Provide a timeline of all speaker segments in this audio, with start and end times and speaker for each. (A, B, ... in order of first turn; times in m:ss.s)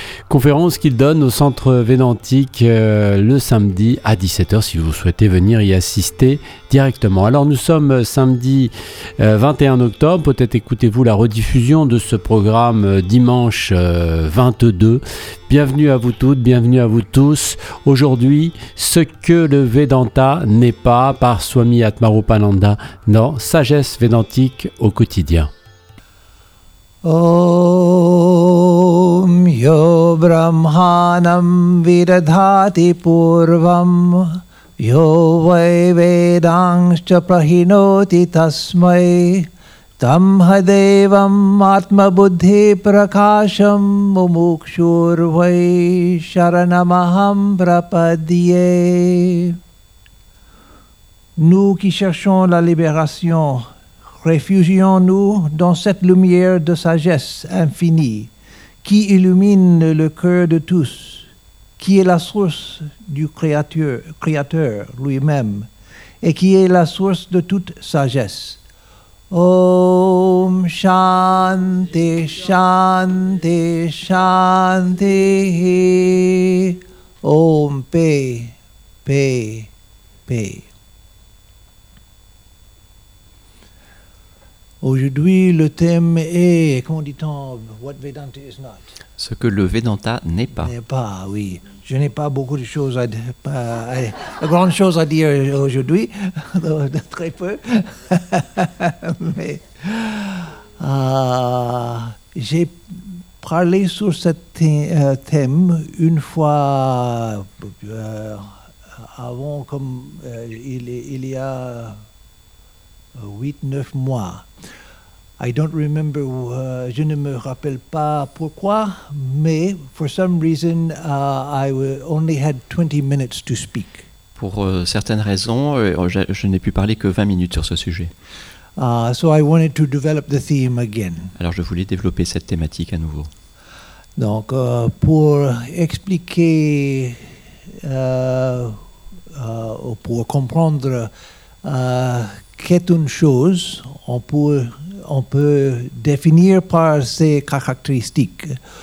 0:00.3-0:25.5 A
0:27.0-0:49.6 B
0:51.4-0:53.7 B
0:54.2-0:58.3 B
0:58.8-1:05.7 B
1:06.2-1:08.6 B
1:09.3-1:19.7 B
1:20.3-1:20.7 B
1:24.8-1:28.9 B
1:29.2-1:30.7 C
1:30.6-1:52.0 B
1:53.1-1:54.5 B
1:55.4-2:04.0 B
2:04.4-2:08.1 C
2:08.8-2:11.3 B
2:11.4-2:13.3 C
2:14.2-2:17.2 B
2:17.8-2:18.8 B
2:19.3-2:21.1 B
2:21.6-2:28.6 B